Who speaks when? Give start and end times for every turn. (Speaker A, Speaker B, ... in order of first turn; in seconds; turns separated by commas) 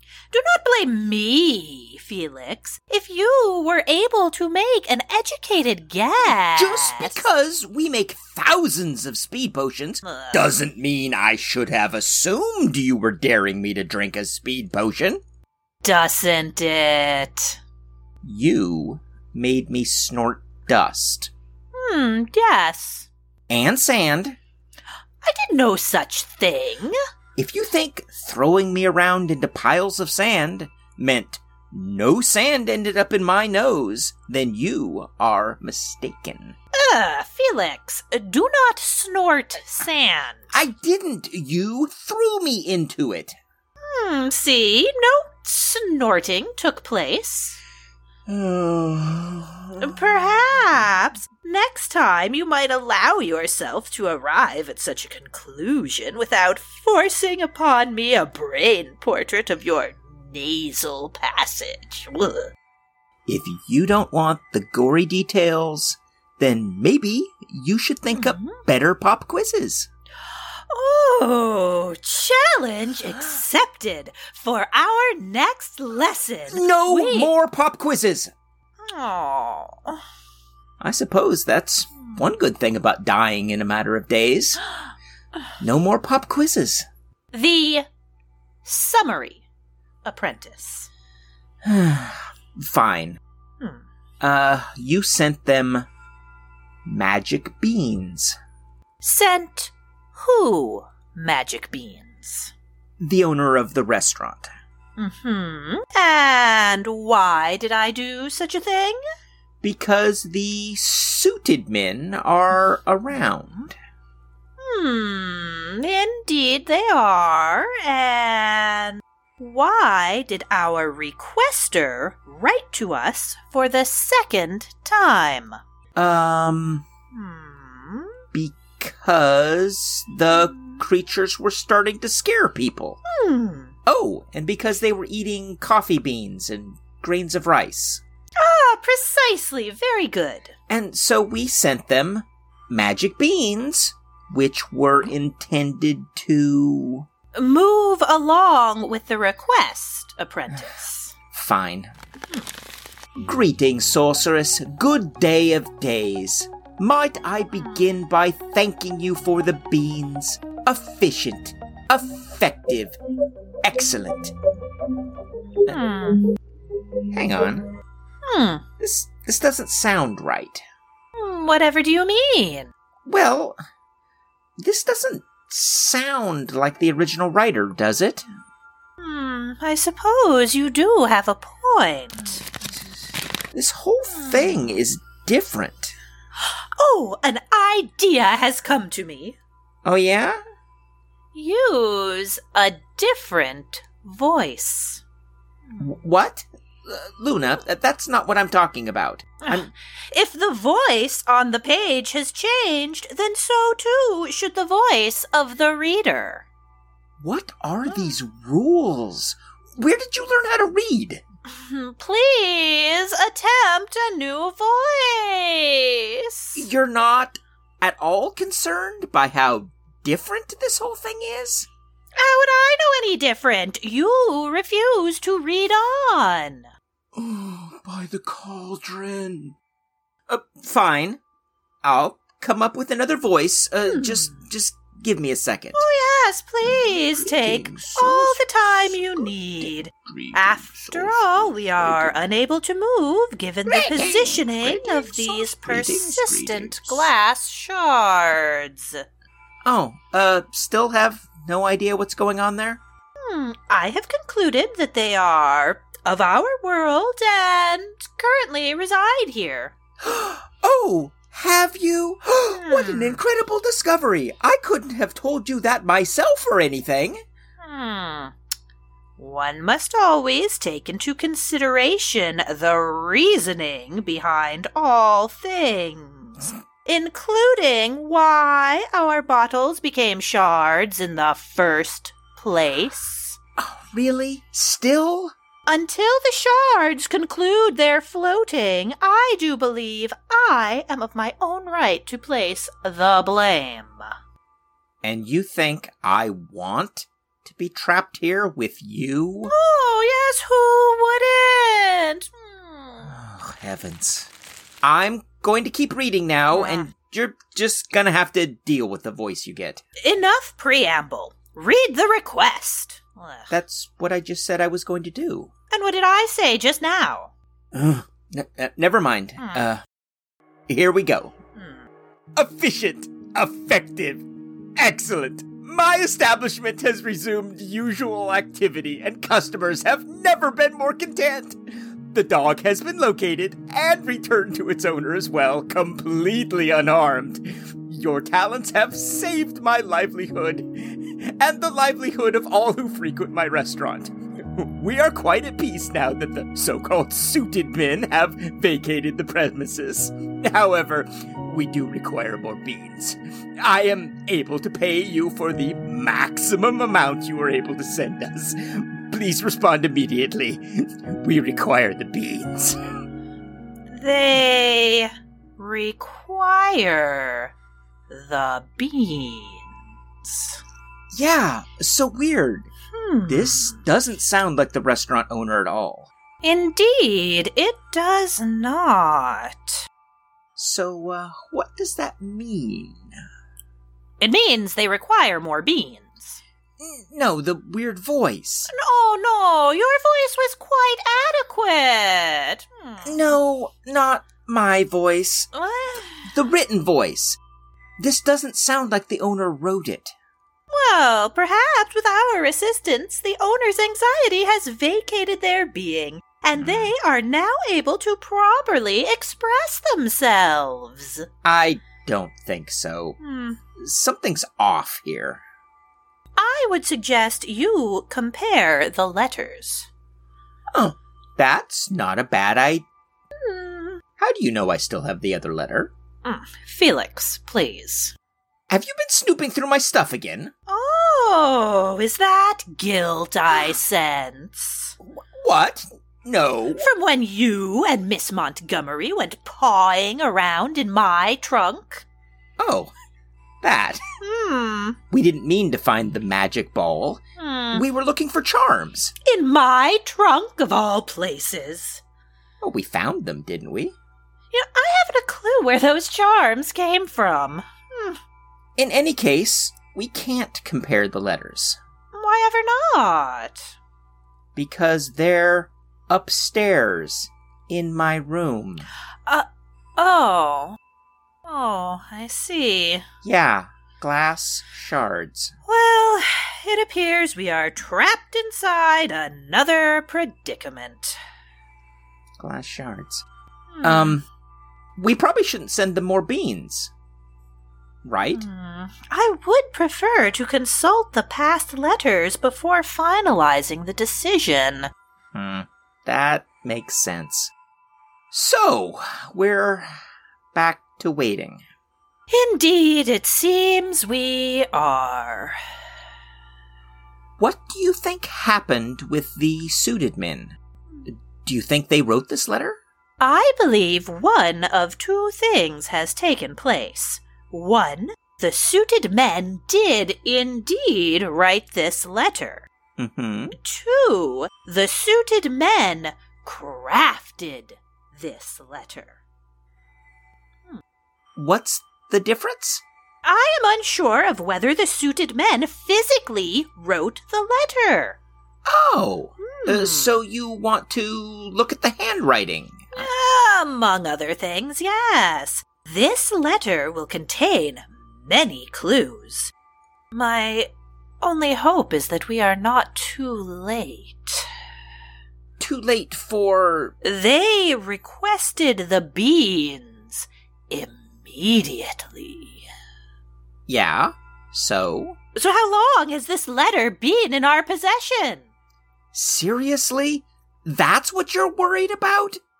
Speaker A: 0.3-7.3, Speaker B: 6.3-15.2, Speaker A: 10.0-10.6, Speaker A: 15.8-17.6, Speaker B: 18.2-21.3, Speaker A: 21.7-23.1, Speaker B: 23.5-24.4, Speaker A: 25.2-27.0, Speaker B: 27.4-36.6, Speaker A: 36.8-40.5, Speaker B: 40.5-43.4, Speaker A: 43.9-47.6, Speaker B: 48.3-50.9, Speaker A: 49.8-62.5, Speaker B: 63.3-69.9, Speaker A: 68.1-68.6, Speaker A: 70.7-77.3, Speaker B: 76.5-78.3, Speaker A: 78.8-80.0, Speaker B: 80.8-84.6, Speaker B: 85.6-86.8, Speaker A: 87.3-87.9, Speaker A: 88.7-89.5, Speaker A: 90.0-90.9, Speaker B: 91.6-93.2, Speaker B: 94.2-95.9, Speaker B: 96.9-98.4, Speaker A: 99.0-102.5, Speaker B: 103.0-104.5, Speaker A: 105.0-109.0, Speaker B: 109.6-113.8, Speaker A: 114.6-125.6, Speaker B: 126.0-126.9, Speaker A: 127.1-128.2, Speaker B: 128.3-133.0, Speaker A: 130.3-130.8, Speaker A: 133.1-133.8, Speaker B: 133.9-138.0, Speaker A: 138.4-140.6, Speaker B: 140.7-147.1, Speaker A: 147.3-151.1, Speaker B: 151.3-151.9, Speaker B: 153.2-163.0, Speaker A: 157.6-157.9, Speaker B: 163.6-164.3, Speaker A: 165.7-166.3, Speaker B: 167.1-167.7, Speaker A: 168.3-168.7, Speaker B: 168.8-170.6, Speaker A: 171.2-172.7, Speaker B: 173.1-173.6, Speaker B: 174.6-178.3, Speaker A: 179.0-182.4, Speaker B: 183.5-185.9, Speaker A: 184.1-184.8, Speaker A: 186.4-189.4, Speaker B: 189.8-190.4, Speaker A: 191.3-195.0, Speaker B: 195.8-199.7, Speaker A: 199.4-206.5, Speaker B: 207.2-211.2, Speaker A: 211.5-216.7, Speaker B: 216.6-221.7, Speaker A: 222.2-226.7, Speaker B: 227.2-229.6, Speaker B: 230.3-231.2, Speaker B: 231.8-235.9, Speaker A: 233.8-234.4, Speaker A: 235.7-249.0, Speaker B: 236.6-242.3, Speaker B: 243.7-247.1, Speaker B: 249.7-252.8, Speaker A: 253.3-259.8, Speaker B: 260.0-267.2, Speaker A: 262.5-263.2, Speaker A: 267.6-268.3, Speaker A: 269.2-283.4, Speaker B: 283.6-285.3, Speaker A: 285.7-294.1, Speaker B: 295.0-299.5, Speaker A: 299.5-303.1, Speaker B: 303.0-304.3, Speaker B: 304.8-309.8, Speaker A: 306.5-306.9, Speaker A: 310.0-313.5, Speaker B: 313.5-315.5, Speaker A: 315.7-317.3, Speaker B: 317.7-319.8, Speaker A: 319.4-319.6, Speaker B: 320.7-321.3, Speaker A: 321.6-321.8, Speaker B: 322.4-324.3, Speaker B: 324.8-331.6, Speaker B: 332.1-362.8, Speaker A: 363.9-367.5, Speaker A: 368.1-370.6, Speaker B: 371.1-372.7, Speaker A: 372.9-373.8, Speaker B: 373.3-376.1, Speaker A: 376.4-379.9, Speaker B: 380.6-383.1, Speaker A: 384.2-386.4, Speaker B: 386.8-388.7, Speaker A: 388.7-393.4, Speaker B: 393.1-395.5, Speaker A: 395.5-396.3, Speaker B: 396.3-397.4, Speaker B: 398.0-400.1, Speaker A: 400.7-411.3, Speaker B: 406.6-406.9, Speaker B: 411.4-413.2, Speaker A: 413.2-413.6, Speaker B: 413.8-415.4, Speaker A: 416.4-419.9, Speaker B: 420.7-422.9, Speaker A: 423.4-424.0, Speaker B: 424.2-425.9, Speaker A: 426.2-428.1, Speaker B: 428.7-430.5, Speaker A: 430.7-435.0, Speaker B: 435.0-436.9, Speaker A: 436.8-442.1, Speaker B: 442.6-442.9, Speaker B: 443.6-444.0, Speaker A: 444.2-445.0, Speaker B: 445.1-449.1, Speaker A: 447.4-447.9, Speaker A: 449.2-452.0, Speaker B: 452.6-454.0, Speaker A: 454.5-458.2, Speaker B: 458.8-461.8, Speaker A: 462.1-463.7, Speaker B: 464.6-468.9, Speaker A: 470.0-470.8, Speaker A: 471.5-473.1, Speaker B: 473.2-475.5, Speaker A: 475.7-481.2, Speaker B: 482.4-483.3, Speaker A: 483.7-484.2, Speaker B: 483.8-484.3, Speaker B: 485.0-486.9, Speaker B: 488.0-488.5, Speaker A: 488.3-494.9, Speaker B: 495.3-497.5, Speaker B: 498.3-499.9, Speaker B: 500.5-501.6, Speaker A: 502.3-505.6, Speaker B: 507.4-510.6, Speaker B: 511.4-512.8, Speaker A: 513.2-522.7, Speaker B: 523.0-523.6, Speaker A: 523.5-529.2, Speaker B: 531.4-532.8, Speaker A: 533.2-538.2, Speaker B: 538.7-543.1, Speaker A: 539.4-540.2, Speaker A: 542.9-549.5, Speaker A: 550.1-550.7, Speaker A: 551.2-554.5, Speaker B: 555.6-557.0, Speaker A: 557.0-562.7, Speaker B: 563.7-565.2, Speaker A: 565.4-568.5, Speaker B: 569.1-572.4